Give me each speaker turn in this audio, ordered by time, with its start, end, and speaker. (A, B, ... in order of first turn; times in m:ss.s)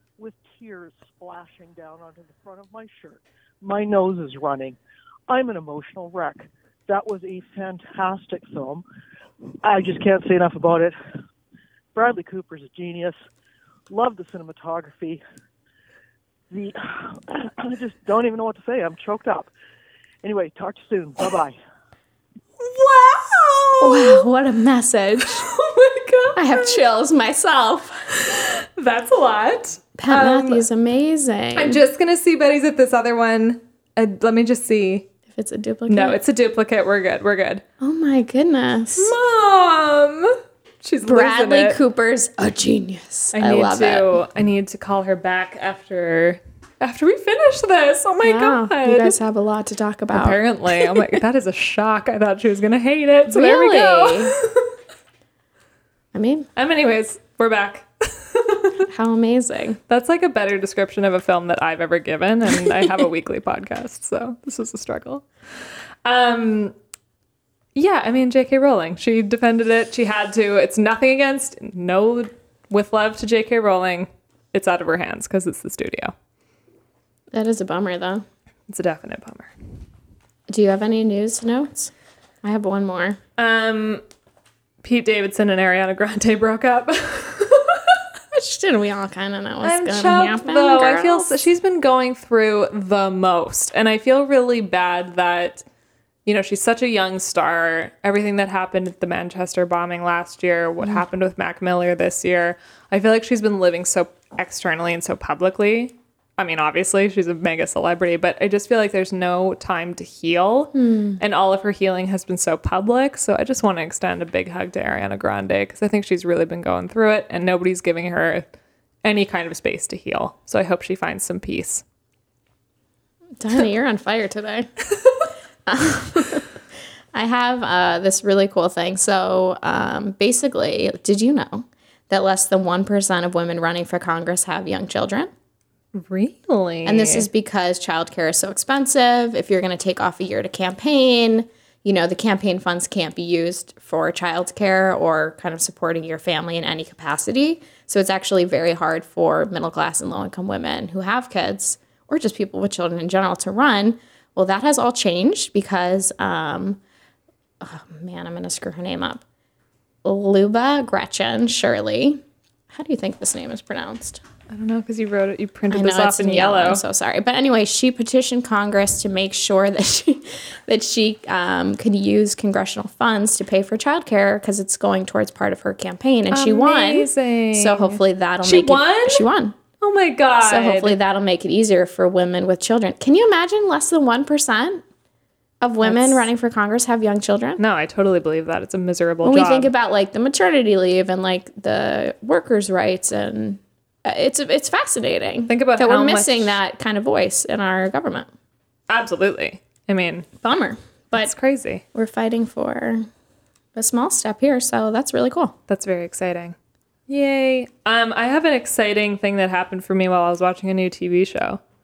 0:00.2-0:04.8 A
0:05.3-0:08.8 A
0:09.6-0:11.0 A
0:11.9-0:13.2 A
0:13.9-0:15.2 A
0:16.5-0:19.5 A
0:20.2-0:21.6 A
0:22.6-0:24.3 B
0:23.8-0:25.5 C
0:25.2-0:26.8 B
0:26.4-0:28.1 C
0:28.1-0:30.7 B
0:30.0-0:31.8 C
0:31.6-0:35.1 B
0:35.3-0:36.2 C
0:35.9-0:37.6 B
0:37.8-0:39.1 C
0:39.0-0:41.8 B
0:41.0-0:44.2 C
0:43.3-0:49.2 B
0:48.2-0:50.4 C
0:50.1-0:54.7 B
0:53.3-0:54.4 C
0:56.1-0:56.5 C
0:56.6-0:58.9 B
0:58.9-0:59.8 C
0:59.9-1:05.2 B
1:06.0-1:06.8 B
1:07.8-1:16.2 B
1:17.3-1:18.2 C
1:18.7-1:19.5 B
1:20.5-1:21.9 C
1:22.4-1:23.2 C
1:23.4-1:24.0 B
1:24.8-1:28.0 B
1:28.3-1:31.4 C
1:29.6-1:35.6 B
1:36.3-1:58.5 B
1:50.8-1:51.2 C
1:59.0-2:01.8 B
2:03.4-2:04.7 C
2:05.7-2:06.5 C
2:07.1-2:15.3 C
2:16.0-2:17.3 B
2:16.8-2:36.8 C
2:37.6-2:39.2 C
2:40.0-2:44.2 C
2:44.5-2:46.8 B
2:45.7-2:59.6 C
2:56.3-2:59.3 B
2:59.8-3:01.0 B
3:00.4-3:04.8 C
3:05.6-3:07.6 C
3:05.8-3:06.3 B
3:07.6-3:09.7 B
3:09.2-3:18.3 C
3:15.5-3:16.6 B
3:18.9-3:20.3 B
3:20.4-3:21.3 C
3:21.2-3:21.8 B
3:21.9-3:23.1 C
3:23.8-3:25.6 C
3:25.7-3:26.6 B
3:27.1-3:31.6 B